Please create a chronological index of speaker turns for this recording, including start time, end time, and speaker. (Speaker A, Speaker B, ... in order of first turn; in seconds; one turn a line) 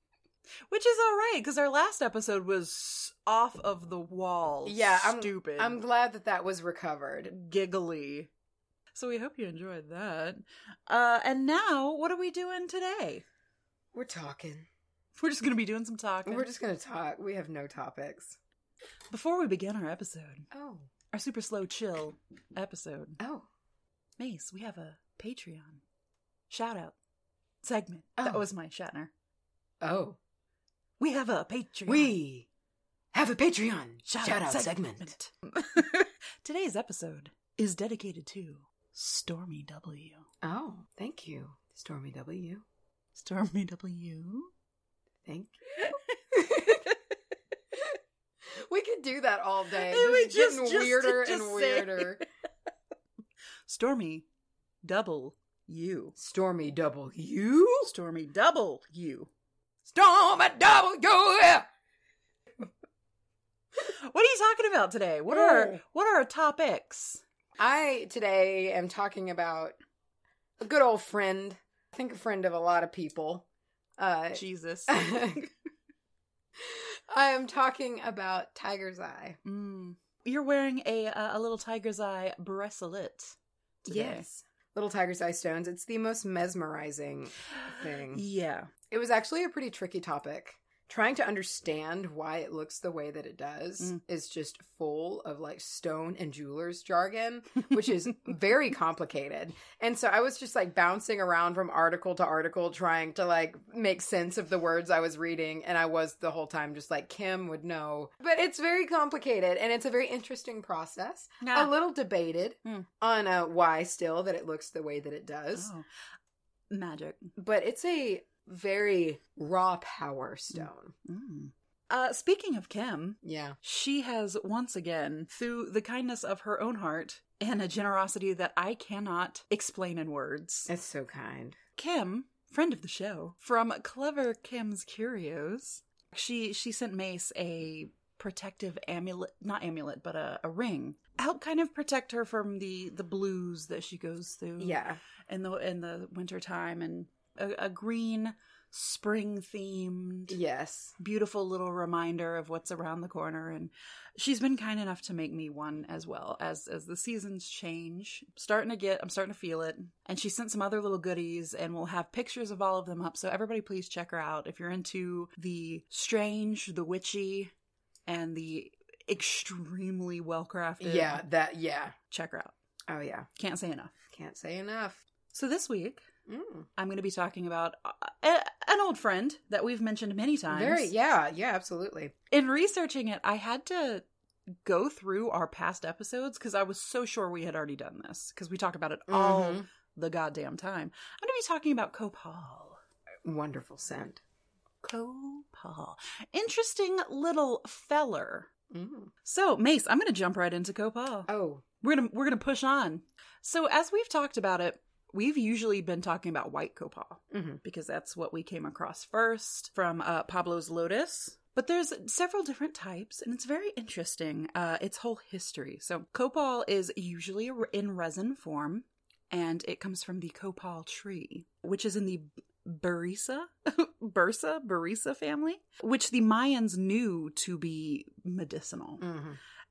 Speaker A: 0.7-5.8
Speaker B: 4.7-7.3
Speaker A: 7.3-8.3
Speaker A: 8.9-13.2
Speaker B: 13.9-14.7
Speaker A: 15.2-16.5
Speaker B: 16.3-18.4
Speaker A: 19.1-20.5
Speaker B: 20.5-20.9
Speaker A: 21.1-23.2
Speaker B: 23.2-23.5
Speaker A: 24.2-25.8
Speaker A: 26.5-27.0
Speaker A: 27.6-29.1
Speaker B: 29.8-30.2
Speaker A: 31.0-32.1
Speaker B: 31.9-32.5
Speaker B: 33.1-35.1
Speaker A: 34.1-40.3
Speaker B: 40.4-42.6
Speaker A: 43.1-44.5
Speaker B: 45.3-46.9
Speaker B: 48.5-52.2
Speaker A: 49.7-52.2
Speaker A: 53.7-54.3
Speaker A: 54.8-56.1
Speaker B: 56.2-57.9
Speaker A: 57.8-59.3
Speaker B: 59.9-61.7
Speaker A: 63.8-67.2
Speaker B: 65.3-65.8
Speaker B: 67.6-69.8
Speaker B: 70.6-73.5
Speaker B: 74.0-75.5
Speaker A: 74.3-75.4
Speaker B: 76.6-79.4
Speaker A: 79.4-84.2
Speaker B: 83.9-88.2
Speaker A: 87.8-88.7
Speaker B: 88.9-115.7
Speaker A: 111.4-111.7
Speaker A: 115.5-115.8
Speaker A: 116.7-117.3
Speaker B: 117.4-121.0
Speaker A: 120.5-130.7
Speaker B: 123.2-123.6
Speaker B: 130.7-131.6
Speaker A: 131.8-150.4
Speaker B: 144.6-145.0
Speaker B: 150.3-150.9
Speaker A: 151.0-167.5
Speaker A: 168.1-171.2
Speaker B: 170.8-171.9
Speaker A: 172.1-172.5
Speaker B: 172.9-173.3
Speaker A: 173.4-173.9
Speaker B: 174.1-175.0
Speaker A: 175.3-176.1
Speaker B: 176.3-176.7
Speaker A: 176.8-180.9
Speaker B: 180.5-182.1
Speaker A: 182.3-192.8
Speaker B: 189.1-189.7
Speaker B: 193.2-194.2
Speaker A: 194.8-198.5
Speaker B: 198.7-199.1
Speaker A: 199.2-201.3
Speaker B: 201.3-201.6
Speaker A: 201.8-229.1
Speaker B: 207.3-207.6
Speaker B: 229.0-229.4